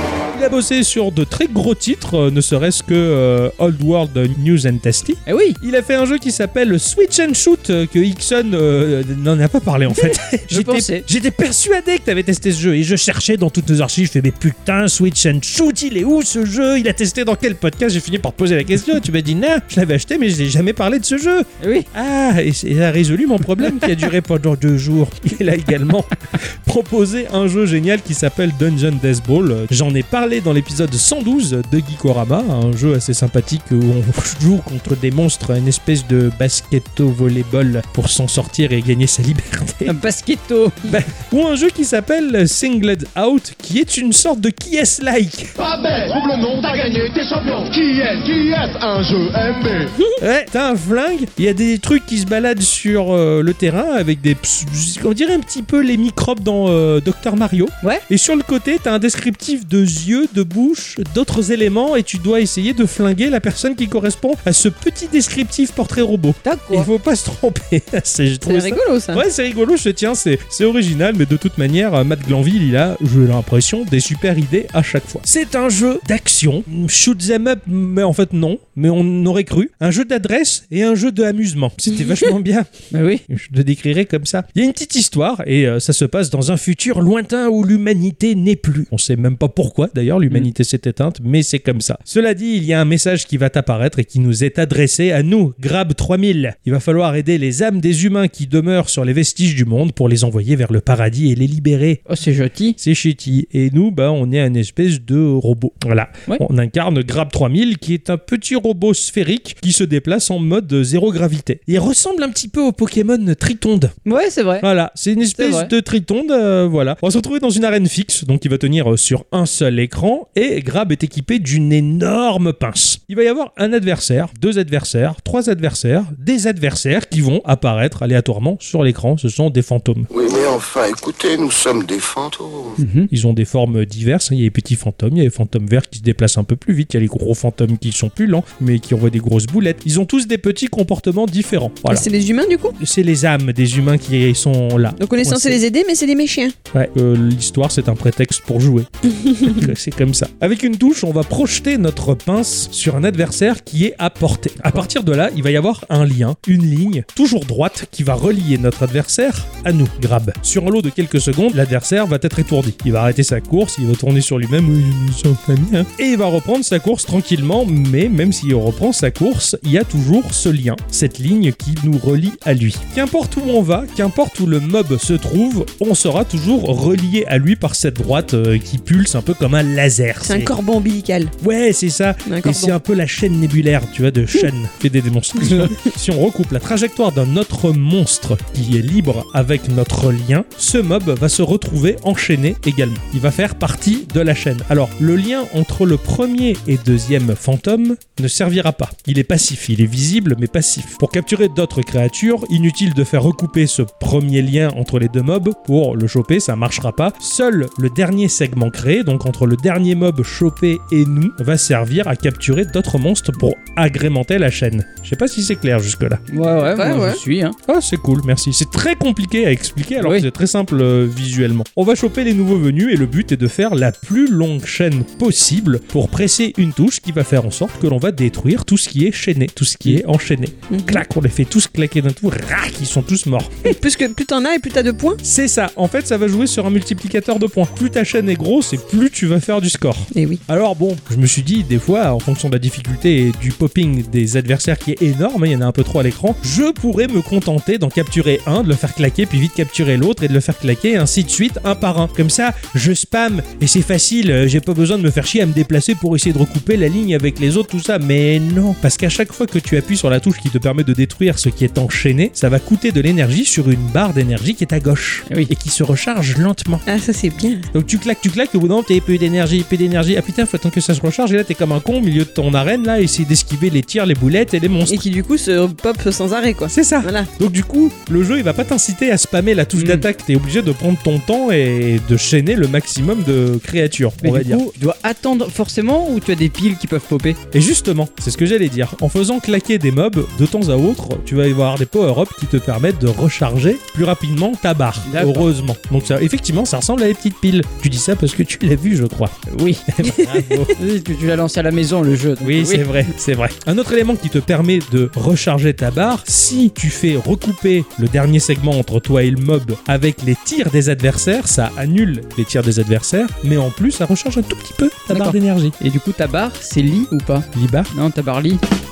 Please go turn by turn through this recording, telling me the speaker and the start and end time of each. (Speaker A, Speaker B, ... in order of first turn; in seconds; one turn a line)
Speaker A: 0.3-39.9
Speaker B: 5.3-5.6
Speaker B: 10.5-11.1
Speaker B: 21.6-21.9
Speaker B: 39.9-41.0
Speaker A: 40.8-45.5
Speaker C: 45.6-49.9
Speaker A: 50.2-82.7
Speaker B: 66.4-66.9
Speaker D: 68.4-69.2
Speaker B: 82.9-83.2
Speaker A: 83.3-102.0
Speaker B: 102.1-102.8
Speaker A: 102.8-113.9
Speaker B: 114.0-114.7
Speaker A: 114.6-130.1
Speaker B: 115.4-115.7
Speaker E: 130.1-132.8
Speaker B: 132.8-133.1
Speaker A: 133.1-142.1
Speaker D: 141.9-142.8
Speaker A: 142.8-145.6
Speaker D: 145.0-146.5
Speaker A: 146.7-180.5
Speaker D: 180.2-181.3
Speaker A: 181.4-216.2
Speaker D: 182.2-182.7
Speaker B: 216.3-217.6
Speaker D: 216.7-217.2
Speaker A: 217.7-233.7
Speaker B: 220.0-220.2
Speaker D: 230.7-231.0
Speaker D: 233.6-235.2
Speaker A: 235.2-266.8
Speaker D: 240.1-240.4
Speaker D: 266.9-267.7
Speaker A: 267.7-275.0
Speaker D: 274.9-277.3
Speaker A: 276.7-284.6
Speaker B: 279.7-280.1
Speaker B: 284.2-287.4
Speaker A: 287.5-299.4
Speaker B: 295.1-295.5
Speaker B: 299.5-303.1
Speaker A: 299.9-300.8
Speaker A: 302.4-315.8
Speaker B: 315.1-318.6
Speaker A: 317.5-317.9